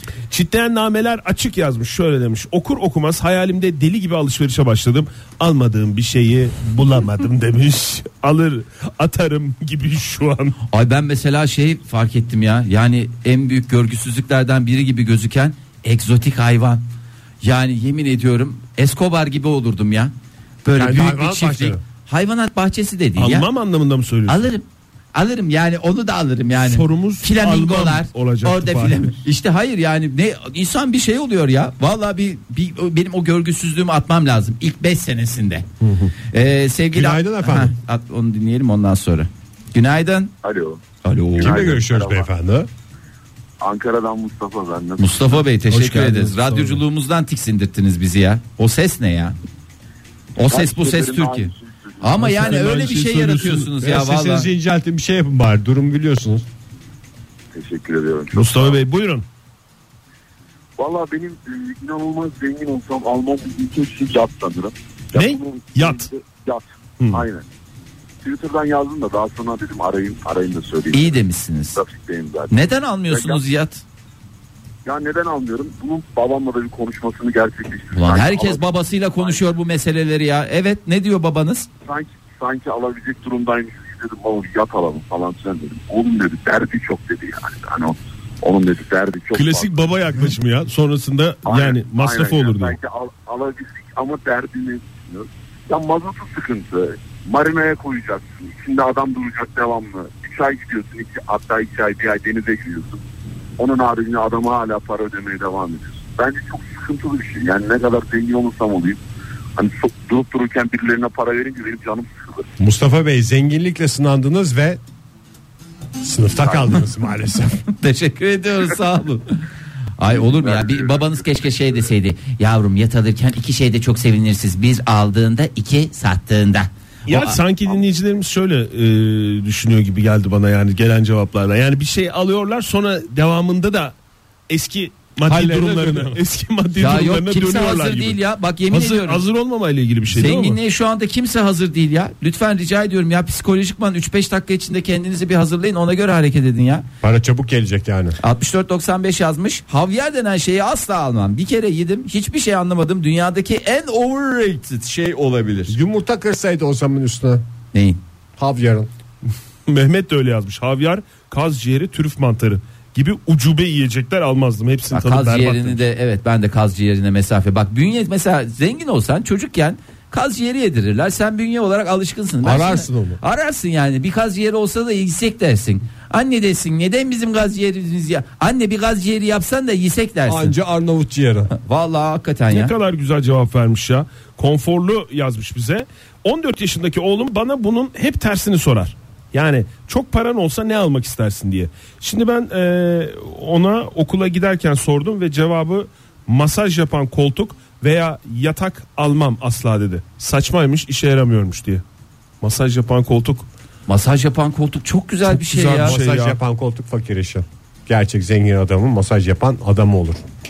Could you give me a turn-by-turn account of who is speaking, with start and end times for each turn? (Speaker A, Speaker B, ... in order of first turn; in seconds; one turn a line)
Speaker A: 0.3-10.6
Speaker B: 10.7-16.8
Speaker B: 17.4-20.1
Speaker B: 20.6-23.5
Speaker C: 20.7-21.8
Speaker A: 23.2-24.4
Speaker B: 24.3-35.6
Speaker A: 26.6-29.0
Speaker B: 36.3-40.3
Speaker C: 36.9-37.7
Speaker D: 40.4-40.8
Speaker B: 41.0-41.7
Speaker C: 41.4-42.7
Speaker D: 41.4-42.3
Speaker D: 43.6-45.5
Speaker B: 45.0-49.4
Speaker A: 45.7-46.7
Speaker C: 45.9-46.6
Speaker B: 50.4-54.5
Speaker D: 50.5-52.2
Speaker A: 52.1-53.7
Speaker C: 53.8-56.5
Speaker D: 57.5-58.8
Speaker A: 58.3-59.2
Speaker D: 60.8-67.4
Speaker A: 65.1-66.0
Speaker D: 68.2-71.2
Speaker B: 70.9-71.8
Speaker D: 71.7-73.4
Speaker B: 72.5-73.8
Speaker D: 74.8-78.6
Speaker B: 77.9-81.7
Speaker D: 79.2-79.5
Speaker D: 81.8-89.9
Speaker A: 89.3-92.8
Speaker D: 91.4-103.0
Speaker D: 103.6-109.0
Speaker D: 109.5-112.5
Speaker C: 112.6-114.8
Speaker C: 116.0-117.6
Speaker D: 116.4-116.8
Speaker B: 117.8-119.3
Speaker B: 120.0-127.4
Speaker D: 120.0-121.7
Speaker A: 127.1-133.9
Speaker A: 134.5-138.2
Speaker C: 135.3-136.2
Speaker B: 135.3-135.7
Speaker B: 136.8-139.2
Speaker A: 138.7-140.6
Speaker B: 140.1-146.8
Speaker C: 147.0-148.2
Speaker B: 148.2-155.7
Speaker C: 155.7-157.4
Speaker B: 157.7-158.0
Speaker C: 158.4-158.9
Speaker A: 159.7-165.8
Speaker B: 164.9-180.5
Speaker C: 172.4-173.2
Speaker C: 180.3-181.5
Speaker B: 181.5-182.7
Speaker A: 182.5-201.8
Speaker A: 202.4-203.5
Speaker B: 203.9-205.9
Speaker A: 205.3-206.4
Speaker C: 205.7-210.2